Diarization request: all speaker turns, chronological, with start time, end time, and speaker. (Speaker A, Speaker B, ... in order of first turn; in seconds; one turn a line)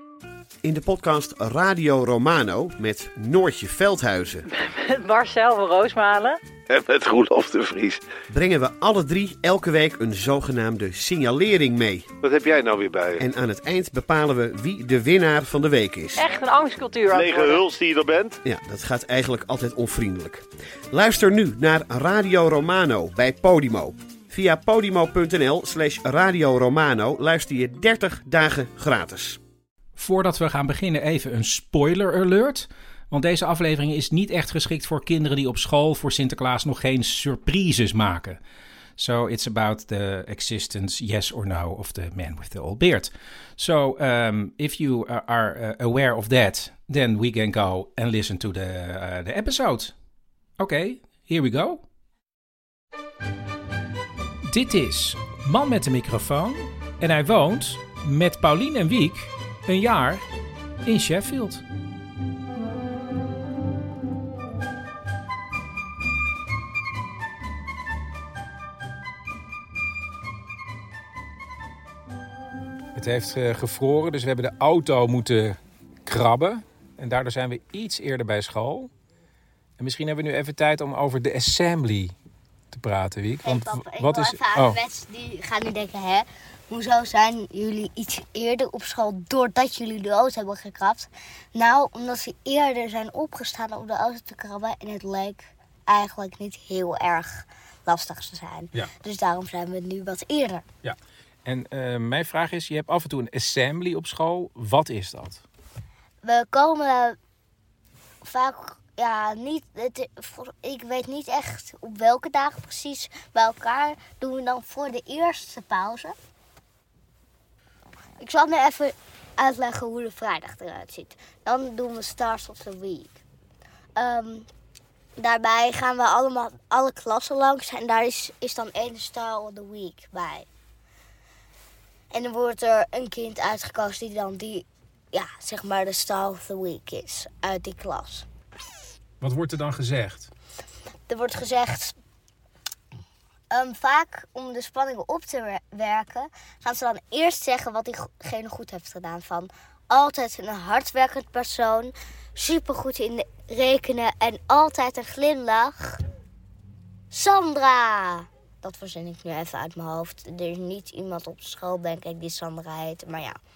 Speaker A: 0.6-4.5
Speaker B: 4.5-6.4
Speaker C: 6.7-8.0
Speaker A: 8.3-12.1
Speaker C: 12.2-13.2
Speaker A: 13.2-16.2
Speaker B: 16.2-17.6
Speaker C: 17.1-18.4
Speaker A: 18.4-29.4
Speaker D: 30.0-38.4
Speaker D: 39.0-49.9
Speaker D: 50.6-51.8
Speaker D: 54.5-60.3
Speaker D: 60.8-61.6
Speaker D: 72.9-78.9
Speaker D: 79.8-82.2
Speaker D: 82.7-84.8
Speaker E: 83.4-100.6
Speaker D: 100.8-105.4
Speaker E: 106.2-107.2
Speaker E: 108.2-116.1
Speaker E: 118.2-123.2
Speaker E: 124.0-124.5
Speaker E: 125.2-130.5
Speaker E: 132.1-138.2
Speaker D: 139.2-140.3
Speaker E: 141.1-141.9
Speaker E: 143.5-156.0
Speaker E: 157.1-163.4